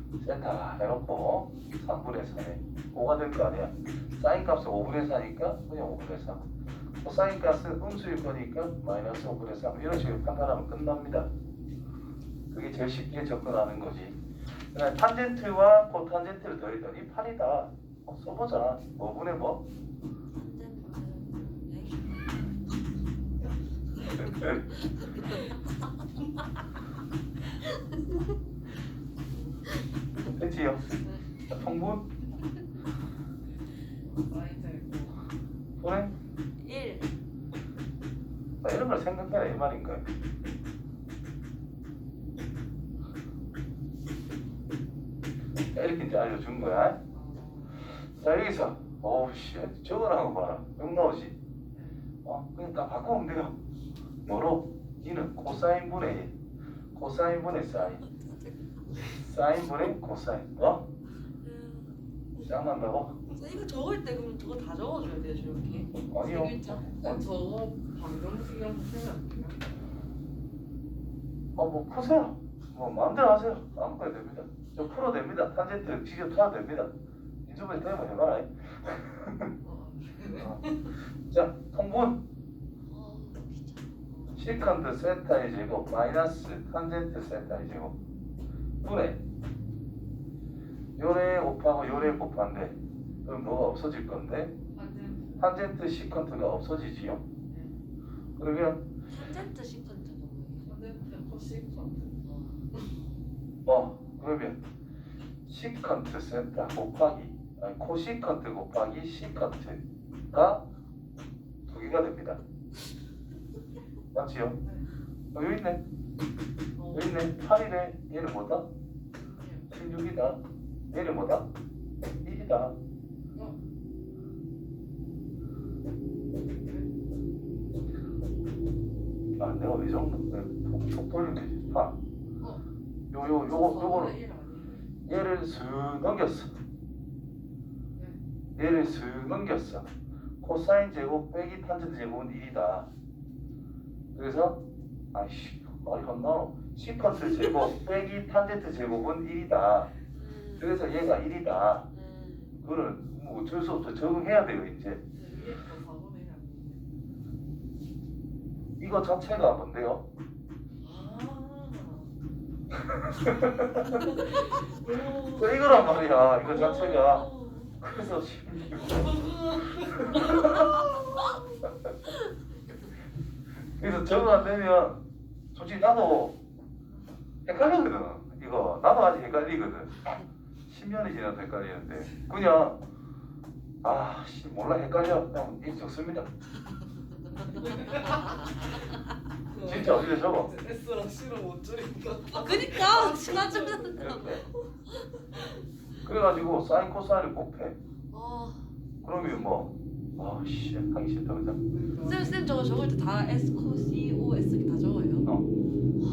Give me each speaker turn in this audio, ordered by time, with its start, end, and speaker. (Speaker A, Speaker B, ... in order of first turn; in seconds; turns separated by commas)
Speaker A: 0.2-6.5, Speaker A: 7.0-11.3, Speaker A: 12.5-14.2, Speaker A: 14.7-19.6, Speaker B: 20.3-22.2, Speaker C: 20.7-21.4, Speaker A: 24.2-24.6, Speaker A: 30.2-30.9, Speaker A: 31.5-32.1, Speaker C: 34.0-35.2, Speaker A: 35.8-36.1, Speaker B: 36.6-37.1, Speaker A: 38.6-40.1, Speaker A: 45.7-47.0, Speaker C: 47.1-47.8, Speaker A: 47.8-51.4, Speaker A: 52.2-53.5, Speaker A: 54.2-56.3, Speaker A: 56.9-58.0, Speaker A: 59.0-60.9, Speaker B: 61.4-62.0, Speaker A: 62.4-63.2, Speaker B: 63.3-67.2, Speaker A: 66.0-66.8, Speaker C: 66.5-69.6, Speaker A: 71.5-76.9, Speaker A: 77.5-79.5, Speaker C: 79.6-80.5, Speaker A: 80.3-82.2, Speaker B: 82.9-84.0, Speaker C: 82.9-84.4, Speaker A: 84.3-87.9, Speaker A: 88.8-89.2, Speaker A: 91.0-94.5, Speaker C: 94.7-95.3, Speaker A: 95.4-97.2, Speaker A: 98.4-98.8, Speaker B: 99.1-100.7, Speaker C: 99.2-102.5, Speaker B: 102.2-102.6, Speaker A: 103.6-104.6, Speaker A: 105.5-110.7, Speaker A: 111.7-112.4, Speaker A: 114.1-114.6, Speaker A: 115.3-115.8, Speaker C: 116.8-117.2, Speaker A: 116.9-118.7, Speaker C: 119.1-119.6, Speaker A: 119.7-120.4, Speaker A: 120.9-121.5, Speaker A: 122.2-122.7, Speaker A: 129.4-132.0, Speaker A: 133.1-134.2, Speaker C: 133.4-134.9, Speaker A: 135.1-136.5, Speaker A: 138.6-139.9, Speaker A: 140.4-142.9, Speaker A: 144.1-144.6, Speaker A: 145.1-149.9, Speaker B: 150.1-150.6, Speaker A: 150.6-151.9, Speaker B: 151.9-152.5, Speaker A: 152.6-155.0, Speaker C: 155.2-156.8, Speaker A: 158.8-160.0, Speaker C: 160.8-162.1, Speaker B: 161.3-161.7, Speaker A: 162.9-164.1, Speaker C: 164.8-165.4, Speaker A: 165.0-167.3, Speaker B: 166.4-167.7, Speaker A: 167.8-170.7, Speaker C: 169.0-170.7, Speaker B: 170.1-171.1, Speaker A: 173.8-175.0, Speaker A: 175.5-176.4, Speaker A: 177.4-180.2, Speaker A: 180.7-182.8, Speaker A: 183.8-186.3, Speaker C: 187.6-188.3, Speaker C: 189.6-189.8, Speaker A: 189.6-190.5, Speaker C: 190.4-194.3, Speaker B: 192.3-194.3, Speaker A: 193.9-194.4, Speaker A: 196.0-197.8, Speaker B: 198.1-198.7, Speaker A: 199.0-201.6, Speaker B: 199.2-199.5, Speaker C: 201.7-204.8, Speaker B: 202.0-205.3